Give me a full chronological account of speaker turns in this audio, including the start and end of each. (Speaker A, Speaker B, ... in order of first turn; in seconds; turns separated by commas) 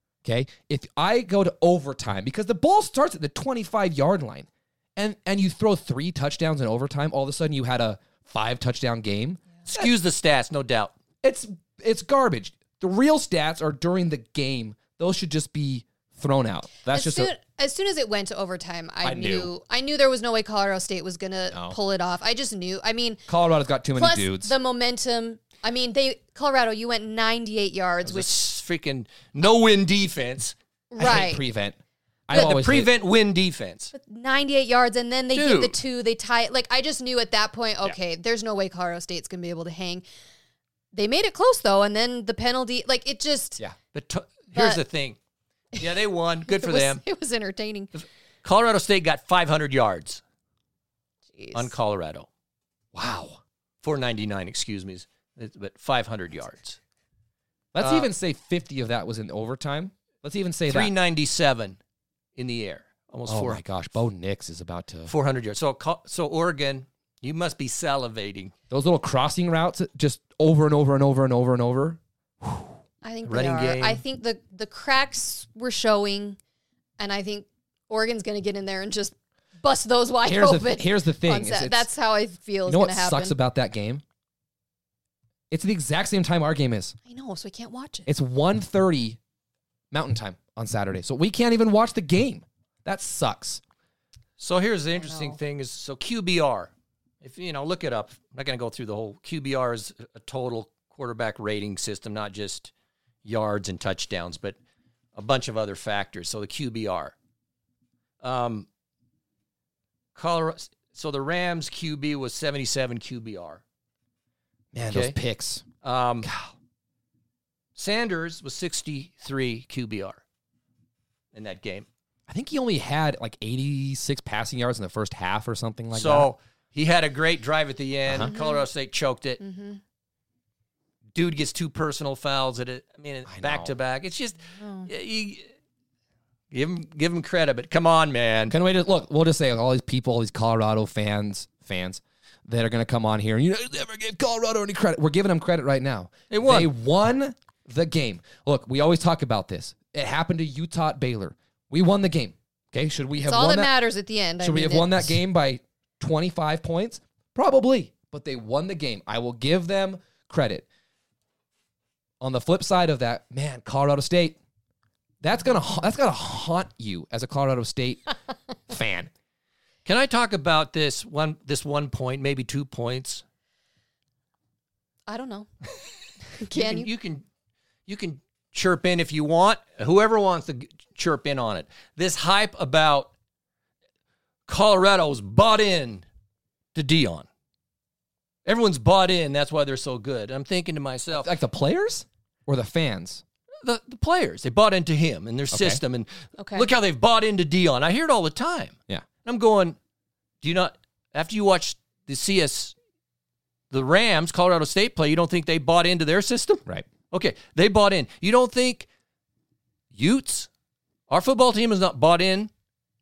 Speaker A: 0.2-9.9, Speaker B: 9.7-10.9, Speaker A: 11.2-17.3, Speaker C: 16.9-23.2, Speaker A: 19.0-19.5, Speaker A: 21.5-21.8, Speaker A: 23.3-24.5, Speaker C: 23.9-28.5, Speaker B: 28.0-30.5, Speaker C: 30.9-31.4, Speaker A: 31.0-32.9, Speaker B: 32.3-33.9, Speaker C: 33.9-40.0, Speaker B: 35.3-35.8, Speaker C: 40.9-43.6, Speaker B: 43.9-45.2, Speaker C: 44.5-44.8, Speaker B: 45.8-47.0, Speaker C: 46.5-47.9, Speaker B: 48.0-50.2, Speaker C: 51.3-51.7, Speaker B: 51.5-52.3, Speaker A: 52.9-53.4, Speaker B: 53.8-56.8, Speaker A: 57.7-60.9, Speaker B: 57.8-58.1, Speaker B: 60.7-61.8, Speaker B: 62.4-63.6, Speaker A: 63.3-65.1, Speaker B: 65.1-68.5, Speaker A: 68.7-72.0, Speaker C: 73.0-76.4, Speaker B: 73.2-74.0, Speaker C: 77.0-83.3, Speaker A: 80.2-81.9, Speaker A: 82.7-84.0, Speaker A: 85.5-87.0, Speaker C: 87.0-88.1, Speaker A: 88.1-89.2, Speaker A: 89.9-93.6, Speaker B: 94.4-96.7, Speaker C: 95.0-95.4, Speaker B: 97.2-102.7, Speaker B: 103.2-104.5, Speaker B: 105.2-107.1, Speaker B: 108.2-108.7, Speaker B: 110.1-113.6, Speaker A: 114.7-115.6, Speaker B: 114.9-115.2, Speaker B: 115.8-116.3, Speaker A: 116.2-116.5, Speaker B: 117.8-120.2, Speaker B: 121.3-121.9, Speaker A: 122.3-126.3, Speaker B: 125.9-129.4, Speaker A: 128.1-128.3, Speaker C: 128.2-128.7, Speaker C: 129.4-129.8, Speaker B: 131.1-135.5, Speaker A: 133.3-133.7, Speaker C: 134.6-134.9, Speaker B: 136.5-138.5, Speaker A: 138.5-153.7, Speaker B: 146.3-146.7, Speaker C: 153.2-155.2, Speaker A: 154.4-160.7, Speaker A: 162.2-164.4, Speaker A: 165.2-168.1, Speaker A: 168.7-169.1, Speaker B: 169.8-173.2, Speaker C: 175.1-175.5, Speaker C: 176.4-176.9, Speaker B: 176.5-177.2, Speaker B: 177.9-183.1, Speaker B: 184.5-186.0, Speaker B: 186.7-187.2, Speaker B: 188.4-191.3, Speaker A: 191.1-193.2, Speaker B: 193.6-199.8, Speaker A: 195.5-195.8, Speaker C: 196.4-196.7, Speaker B: 200.4-202.7, Speaker B: 203.7-208.8, Speaker B: 209.9-210.5, Speaker B: 211.1-212.5